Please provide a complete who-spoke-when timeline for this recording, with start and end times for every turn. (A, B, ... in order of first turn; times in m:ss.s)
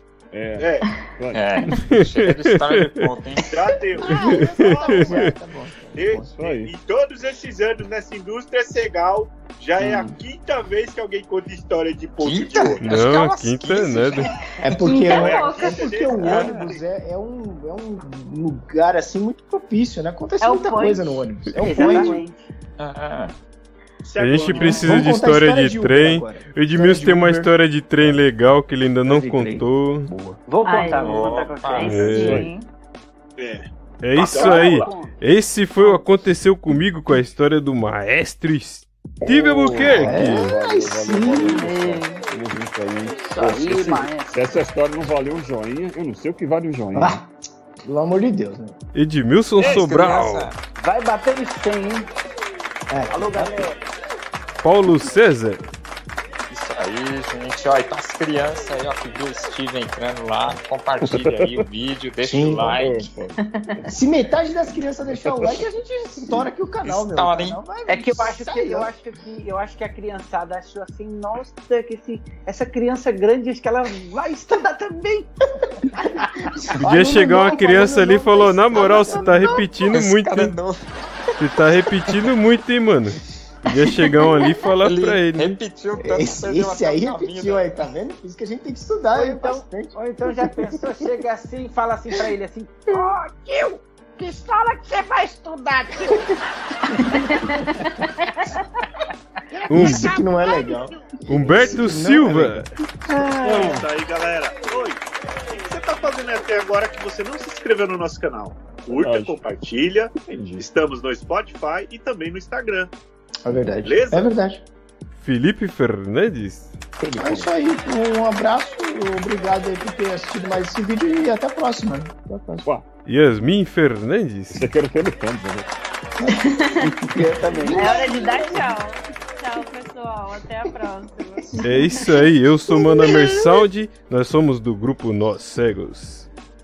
0:00.3-0:01.4 A
0:00.6-0:00.9 B
0:01.3-0:03.6 C
0:01.8-0:03.1 D
0:03.5-0:05.3 B
0:04.0-0:06.3 E
0:04.2-0:05.3 D
0:06.0-0:12.8 B
0:06.3-0:06.7 A
0:12.2-0:14.3 C
0:12.8-0:14.3 D
0:14.6-0:22.2 E
0:14.7-0:16.5 F
0:15.0-0:16.8 B
0:16.3-0:16.7 C
0:20.4-0:21.2 F
0:21.5-0:21.8 D
0:21.6-0:22.4 G
0:21.8-0:22.2 F
0:22.8-0:23.4 C
0:24.0-0:24.9 B
0:24.2-0:30.2 D
0:24.5-0:25.0 F
0:24.7-0:27.5 E
0:29.0-0:29.7 E
0:30.5-0:32.5 G
0:30.6-0:32.6 F
0:30.9-0:32.0 C
0:31.8-0:32.4 D
0:32.2-0:32.5 A
0:33.4-0:34.9 B
0:34.0-0:40.5 D
0:34.4-0:35.2 G
0:35.8-0:36.1 F
0:39.2-0:47.2 A
0:39.9-0:41.8 E
0:41.4-0:42.2 F
0:43.2-0:44.5 G
0:46.9-0:47.3 E
0:47.8-0:48.8 E
0:48.9-0:50.5 D
0:49.6-0:50.6 C
0:50.8-0:52.1 G
0:52.9-0:53.6 E
0:53.1-0:53.8 G
0:54.6-0:55.7 D
0:56.5-1:03.0 C
1:01.0-1:01.6 A
1:02.2-1:03.1 E
1:02.8-1:03.9 A
1:03.9-1:08.9 E
1:05.1-1:05.6 A
1:06.8-1:08.3 C
1:07.9-1:15.3 G
1:16.4-1:19.7 E
1:16.8-1:20.6 D
1:18.8-1:22.3 C
1:21.4-1:25.5 D
1:24.4-1:27.8 C
1:25.9-1:30.9 E
1:29.1-1:36.2 G
1:37.3-1:37.9 F
1:39.5-1:41.8 B
1:39.7-1:40.0 D
1:39.7-1:42.6 E
1:41.2-1:42.7 D
1:43.4-1:52.9 B
1:43.4-1:43.8 A
1:48.9-1:49.4 A
1:50.2-1:50.6 A
1:53.4-1:54.6 E
1:53.8-1:54.3 B
1:55.1-1:56.8 D
1:57.0-1:57.5 A
1:57.2-2:02.7 E
2:03.0-2:04.6 D
2:04.5-2:05.7 A
2:06.2-2:08.7 E
2:06.3-2:07.1 F
2:07.7-2:12.1 F
2:11.6-2:16.3 D
2:13.0-2:13.3 E